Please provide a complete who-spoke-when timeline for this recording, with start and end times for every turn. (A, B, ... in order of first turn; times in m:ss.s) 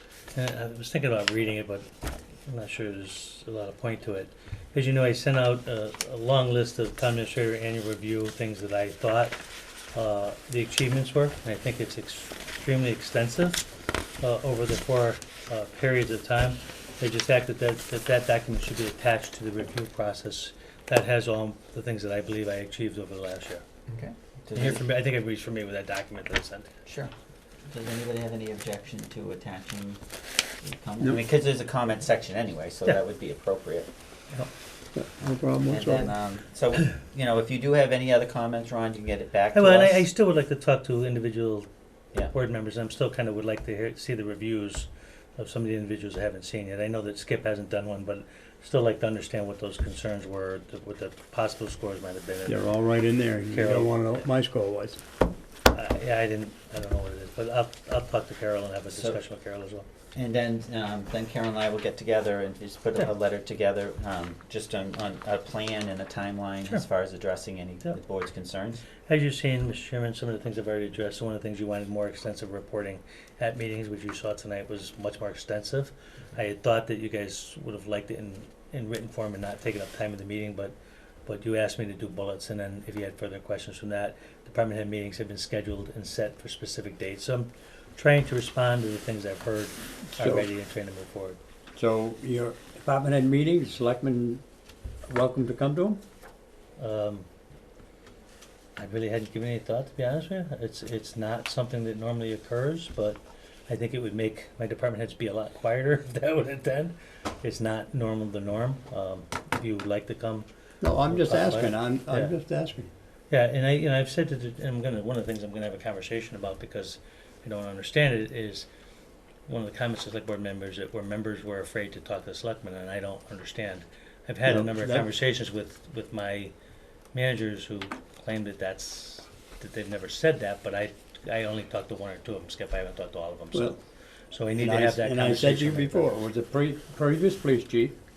0:00.3-0:01.9 A
0:02.4-0:09.4 A
0:09.9-0:23.6 A
0:23.9-0:24.8 B
0:24.5-0:26.7 A
0:26.8-0:27.1 B
0:27.7-0:30.0 B
0:30.6-0:33.9 B
0:34.9-0:36.1 C
0:35.7-0:40.0 B
0:39.5-0:41.7 A
0:42.3-0:52.6 A
0:52.5-0:55.0 C
0:53.5-0:54.3 A
0:55.7-0:59.8 A
0:58.9-0:59.2 B
1:00.1-1:08.8 B
1:09.1-1:20.7 A
1:21.2-1:31.4 A
1:30.2-1:30.5 C
1:31.7-1:34.4 C
1:35.1-1:36.0 C
1:36.8-1:37.2 A
1:38.8-1:50.5 A
1:50.8-1:52.9 C
1:51.1-1:52.3 A
1:53.3-1:58.7 A
1:59.5-2:06.5 A
2:04.4-2:05.0 C
2:07.1-2:13.8 A
2:14.3-2:16.2 A
2:14.6-2:18.0 C